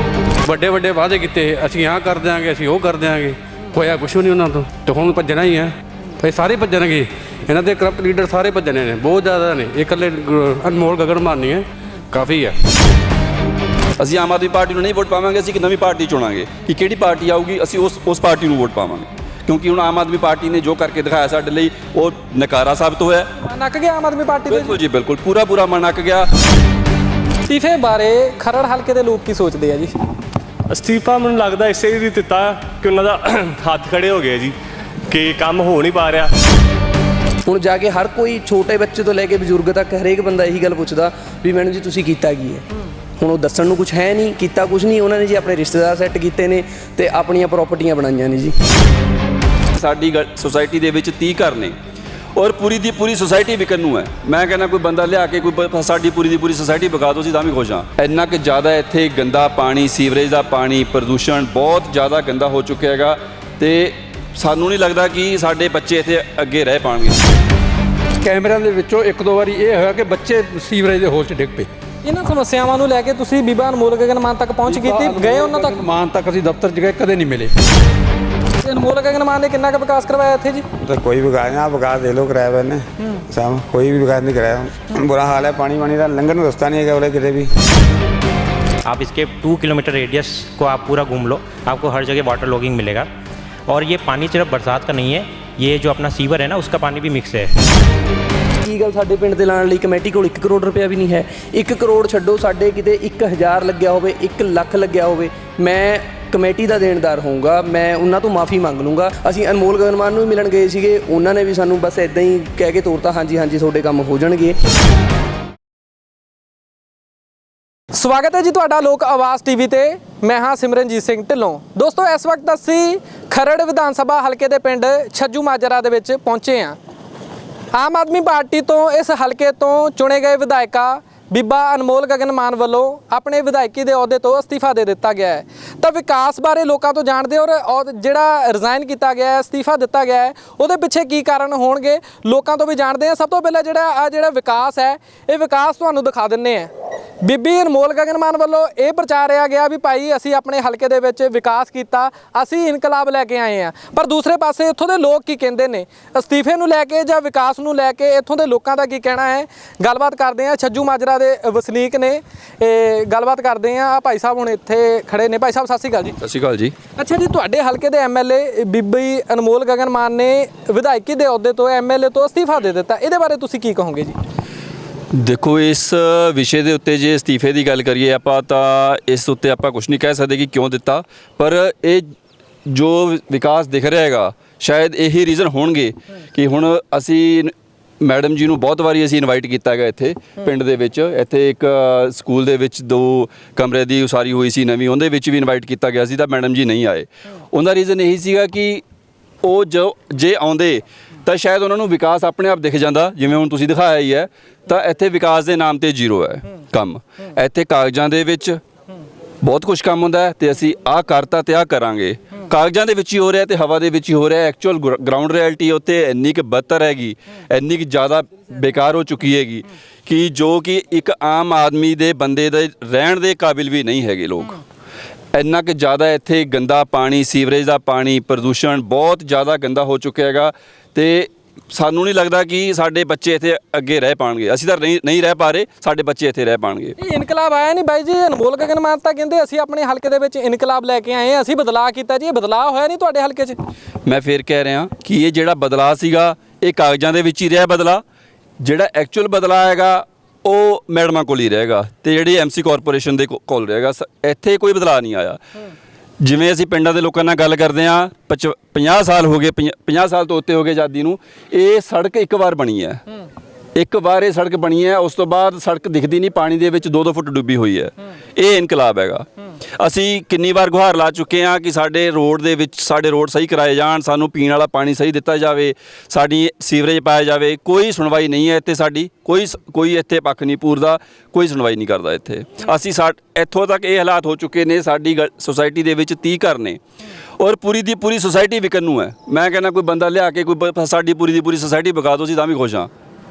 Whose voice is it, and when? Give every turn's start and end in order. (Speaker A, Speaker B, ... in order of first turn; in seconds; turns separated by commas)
Speaker A: 0.4-12.6, Speaker B: 14.0-23.3, Speaker C: 23.4-24.8, Speaker B: 24.5-26.3, Speaker C: 27.5-29.9, Speaker D: 30.7-34.5, Speaker D: 35.1-36.3, Speaker E: 37.5-42.6, Speaker E: 43.2-48.5, Speaker B: 49.7-51.8, Speaker B: 52.4-67.2, Speaker F: 68.2-71.7, Speaker C: 72.0-75.9, Speaker F: 74.7-77.5, Speaker C: 78.6-80.7, Speaker G: 80.8-87.5, Speaker H: 88.8-93.1, Speaker H: 93.7-97.5, Speaker E: 98.6-114.6, Speaker C: 117.9-126.8, Speaker C: 127.7-146.7, Speaker C: 147.2-166.2, Speaker B: 166.2-166.7, Speaker C: 167.0-174.2, Speaker B: 175.1-182.1, Speaker B: 182.7-198.8, Speaker B: 199.4-208.6, Speaker B: 209.4-224.6, Speaker B: 225.3-236.9, Speaker C: 237.0-243.6, Speaker B: 244.1-248.0, Speaker B: 248.6-255.4, Speaker B: 256.2-263.0, Speaker B: 263.8-269.3, Speaker B: 269.8-286.8, Speaker B: 287.4-292.9